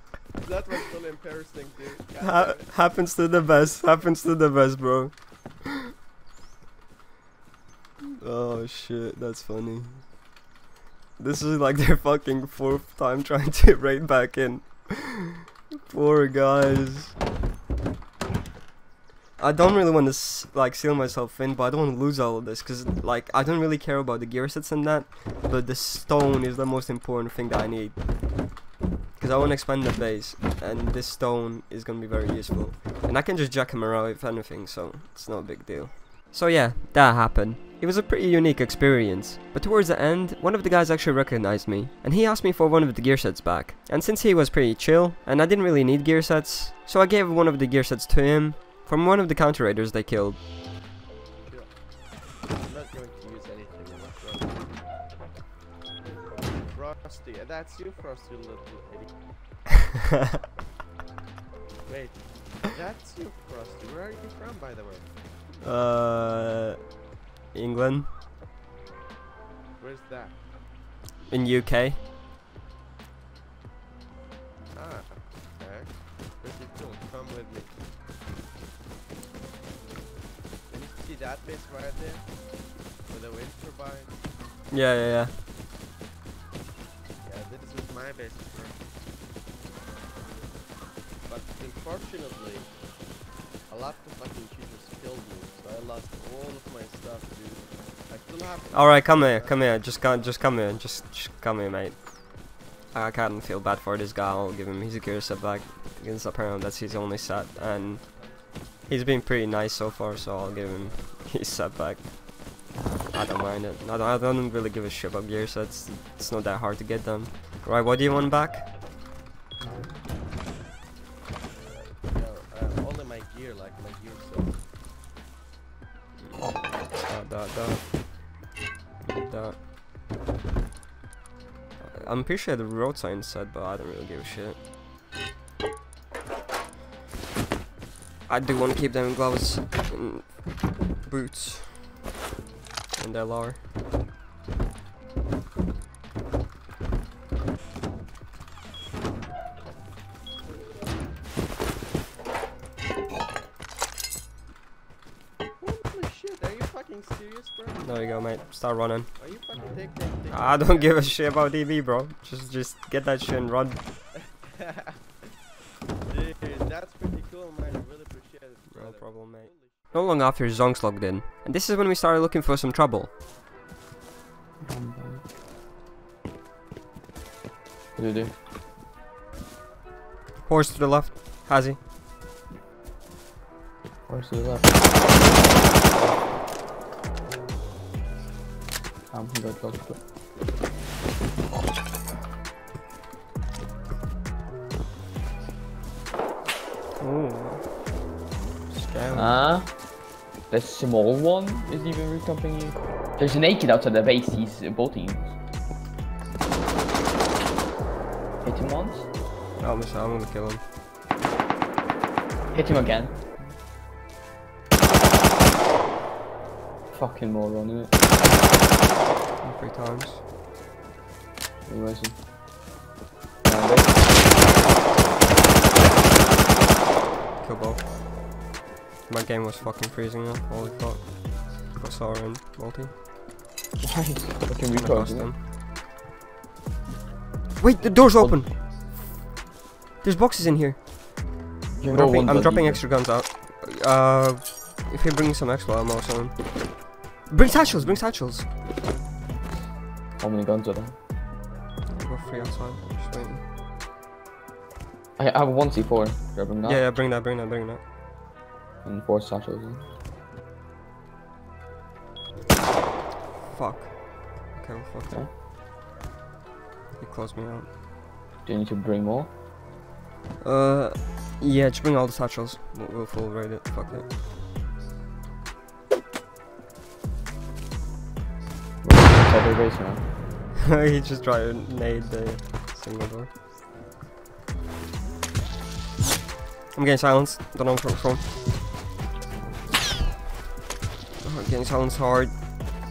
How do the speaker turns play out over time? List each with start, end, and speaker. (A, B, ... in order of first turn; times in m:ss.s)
0:00.3-0:02.8 A
0:02.2-0:05.8 B
0:08.2-0:10.2 B
0:11.2-0:17.1 B
0:19.4-0:28.5 B
0:29.2-0:50.4 B
0:51.4-0:54.8 A
0:56.6-0:59.2 A
1:01.8-1:05.1 A
1:05.6-1:06.9 B
1:07.5-1:08.1 B
1:09.8-1:10.4 A
1:11.3-1:12.0 B
1:14.7-1:17.7 A
1:20.7-1:24.2 A
1:24.7-1:25.3 B
1:27.2-1:28.9 A
1:30.1-1:30.6 A
1:31.2-1:32.7 A
1:33.7-1:40.0 A
1:38.7-1:48.3 B
1:47.6-1:48.9 A
1:48.8-1:52.2 B
1:50.6-1:51.2 A
1:53.1-1:58.8 B
2:01.6-2:04.6 A
2:06.2-2:08.4 B
2:09.0-2:09.6 B
2:11.8-2:14.6 B
2:18.3-2:22.0 B
2:23.0-2:23.6 B
2:35.6-2:38.1 A
2:37.8-2:39.1 B
2:39.2-2:41.3 A
2:40.3-2:43.8 B
2:44.1-2:45.0 A
2:46.1-2:49.9 A
2:48.7-2:53.1 B
2:54.6-2:55.2 C
2:58.0-2:58.3 C
3:00.4-3:01.8 B
3:04.1-3:04.9 C
3:09.1-3:10.0 C
3:17.0-3:17.9 B
3:18.7-3:19.4 B
3:19.1-3:19.7 C
3:20.5-3:25.3 C
3:28.4-3:29.1 C
3:29.6-3:30.6 B
3:32.5-3:33.4 C
3:36.9-3:37.9 C
3:39.4-3:40.2 B
3:41.7-3:42.2 C
3:43.4-3:44.3 C
3:47.4-3:48.0 B
3:49.1-3:53.0 B
3:53.8-3:55.3 C
3:54.7-3:55.4 B
3:57.6-3:58.9 B
3:58.2-3:58.4 C
4:00.0-4:01.2 B
4:01.8-4:02.8 C
4:01.9-4:08.5 B
4:10.2-4:11.0 C
4:11.9-4:13.4 B
4:15.2-4:16.8 C
4:16.6-4:17.8 B
4:18.8-4:19.8 C
4:23.4-4:25.3 B
4:27.0-4:27.7 B
4:28.4-4:29.3 C
4:30.4-4:34.1 B
4:38.8-4:40.1 C
4:40.6-4:43.4 B
4:46.7-4:48.3 B
4:51.2-4:52.3 B